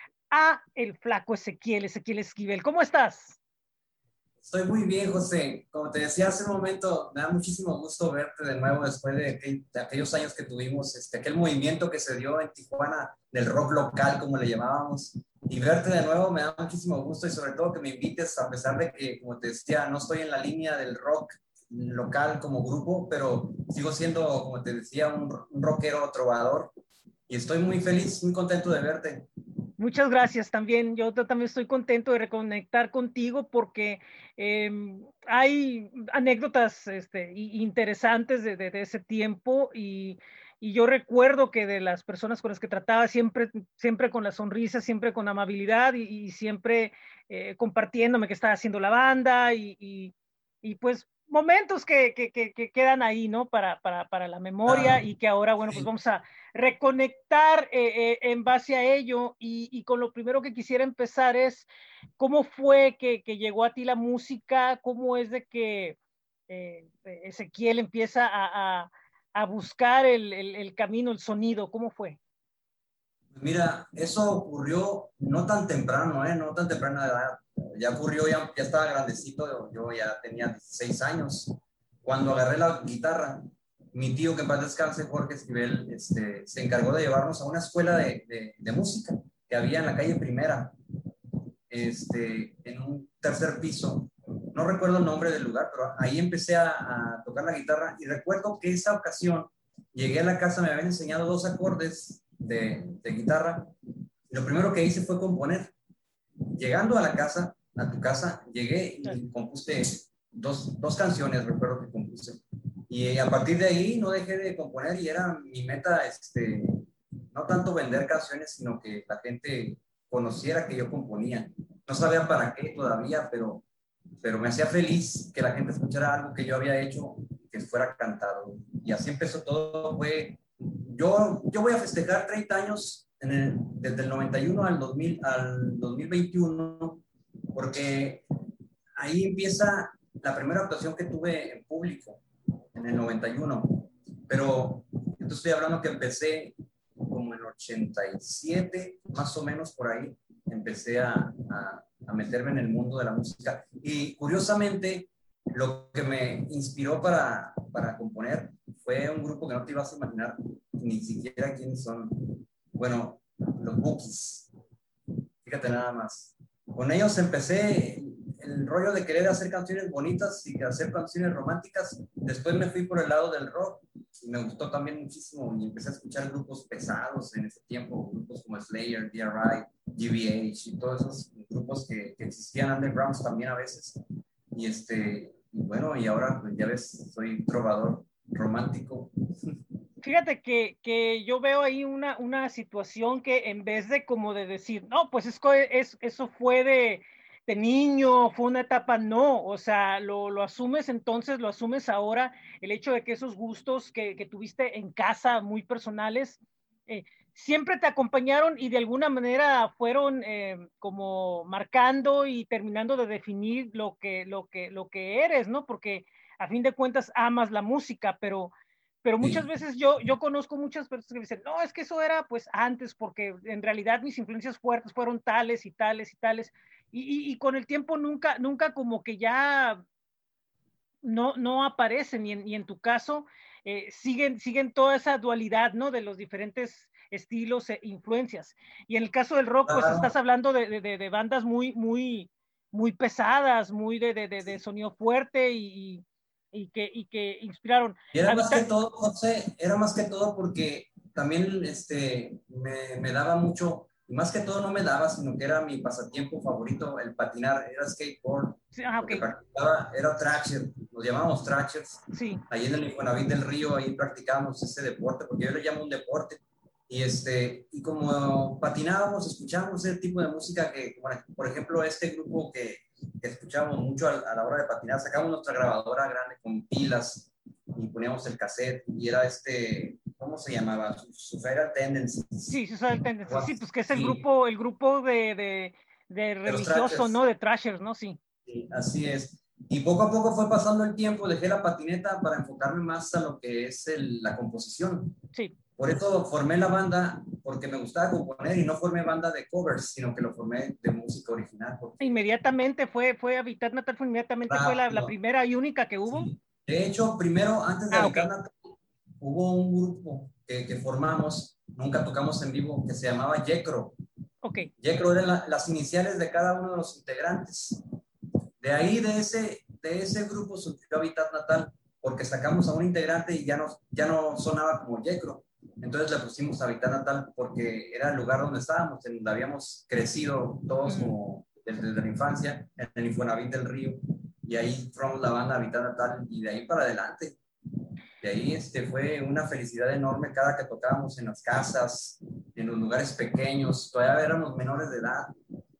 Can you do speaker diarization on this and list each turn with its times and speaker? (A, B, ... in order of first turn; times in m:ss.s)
0:00.3-0:03.4 A
0:04.4-0:26.7 B
0:27.3-0:29.3 B
0:29.8-1:06.0 A
0:54.6-0:55.0 B
1:06.5-1:12.2 A
1:13.3-1:30.7 B
1:31.7-1:43.7 B
1:44.3-1:45.7 B
1:46.6-2:03.6 B
2:04.2-2:17.0 B
2:17.5-2:18.2 B
2:19.0-2:22.2 B
2:22.7-2:44.5 B
2:45.4-3:04.0 B
3:04.5-3:09.6 B
3:10.0-3:38.5 A
3:39.0-3:49.8 A
3:51.0-4:08.6 A
3:59.7-4:00.1 B
4:08.1-4:42.6 B
4:18.8-4:19.3 A
4:22.1-4:22.4 A
4:42.5-4:48.2 A
4:43.2-4:44.2 B
4:46.4-4:47.2 B
4:48.4-4:55.2 B
4:55.8-5:02.2 B
5:02.0-5:06.3 A
5:04.5-5:05.1 B
5:06.1-5:14.0 B
5:07.9-5:08.3 A
5:14.4-5:14.7 A
5:14.8-5:17.8 B
5:18.6-5:37.4 B
5:30.9-5:31.2 A
5:38.2-5:45.3 B